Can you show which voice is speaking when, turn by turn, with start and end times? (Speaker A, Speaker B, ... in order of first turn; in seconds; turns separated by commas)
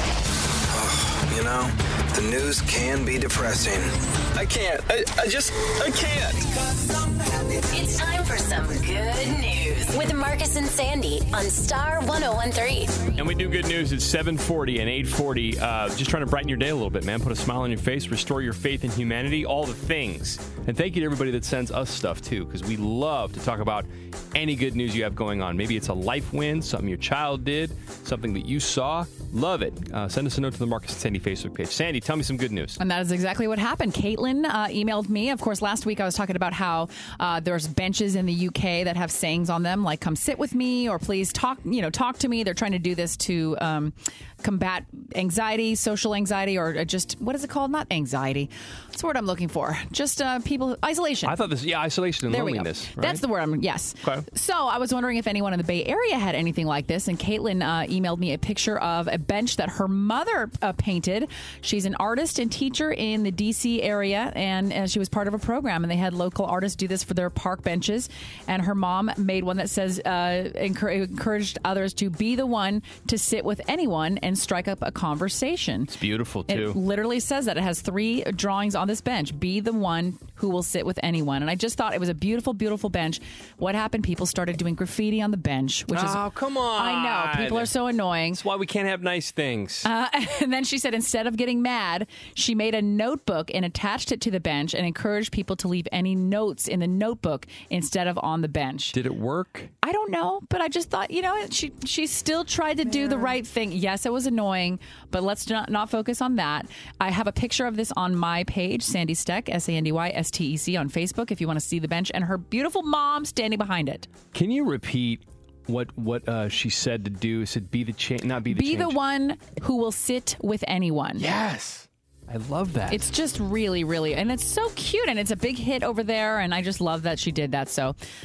Speaker A: 0.7-6.7, Speaker B: 7.7-13.1, Speaker C: 13.2-32.8, Speaker D: 32.8-51.4, Speaker C: 51.2-53.2, Speaker D: 52.3-75.9, Speaker C: 75.9-76.8, Speaker D: 76.5-86.2, Speaker C: 85.9-87.7, Speaker D: 86.8-88.4, Speaker C: 88.3-89.9, Speaker D: 89.8-99.0, Speaker C: 98.9-99.7, Speaker D: 99.8-114.1, Speaker C: 114.3-119.0, Speaker D: 118.5-121.3, Speaker C: 121.2-123.1, Speaker D: 122.9-128.0